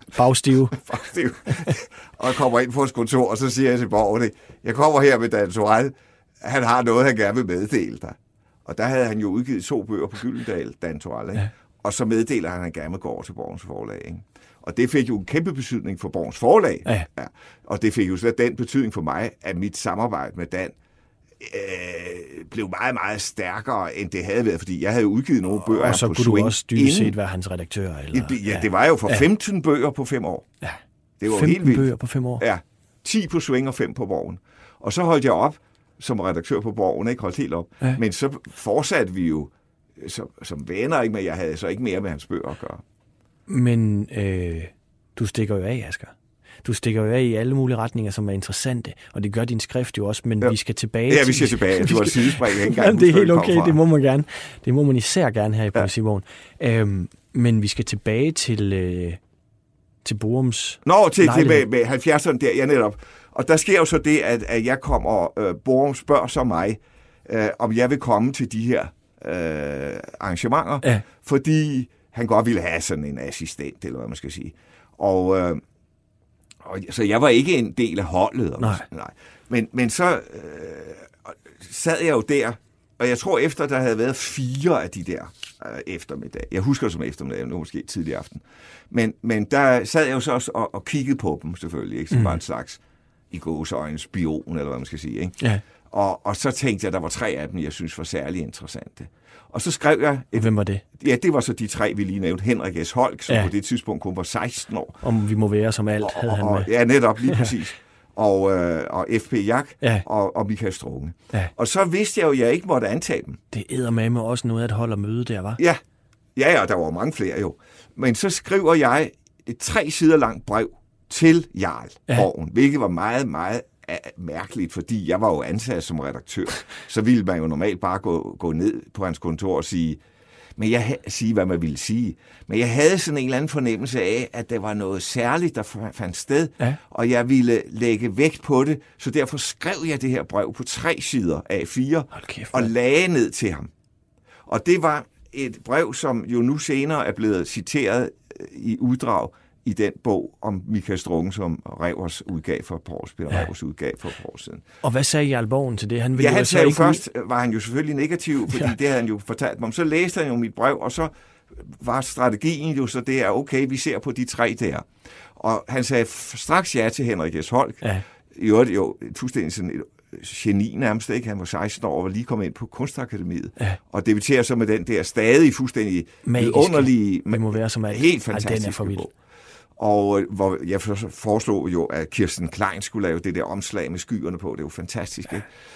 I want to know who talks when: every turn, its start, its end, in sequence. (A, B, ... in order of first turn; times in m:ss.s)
0:00.1-0:00.8 A
0:00.7-0:20.8 B
0:21.4-0:27.2 B
0:25.6-0:29.2 A
0:28.1-0:30.5 B
0:30.6-0:32.4 A
0:31.2-0:42.8 B
0:43.5-0:46.1 A
0:46.6-0:59.2 A
0:51.1-0:53.8 B
1:00.0-1:01.6 A
1:00.9-1:15.6 B
1:16.6-1:32.8 B
1:18.6-1:18.8 A
1:32.1-1:32.4 A
1:33.3-1:35.4 B
1:35.9-1:45.0 B
1:40.4-1:40.8 A
1:45.0-1:46.7 A
1:46.0-1:53.4 B
1:53.5-1:55.6 A
1:56.4-2:10.0 B
2:10.6-2:23.7 B
2:22.1-2:22.7 A
2:24.5-2:34.6 B
2:34.8-2:37.0 A
2:36.2-2:59.1 B
2:56.2-2:59.1 A
2:59.8-3:05.5 B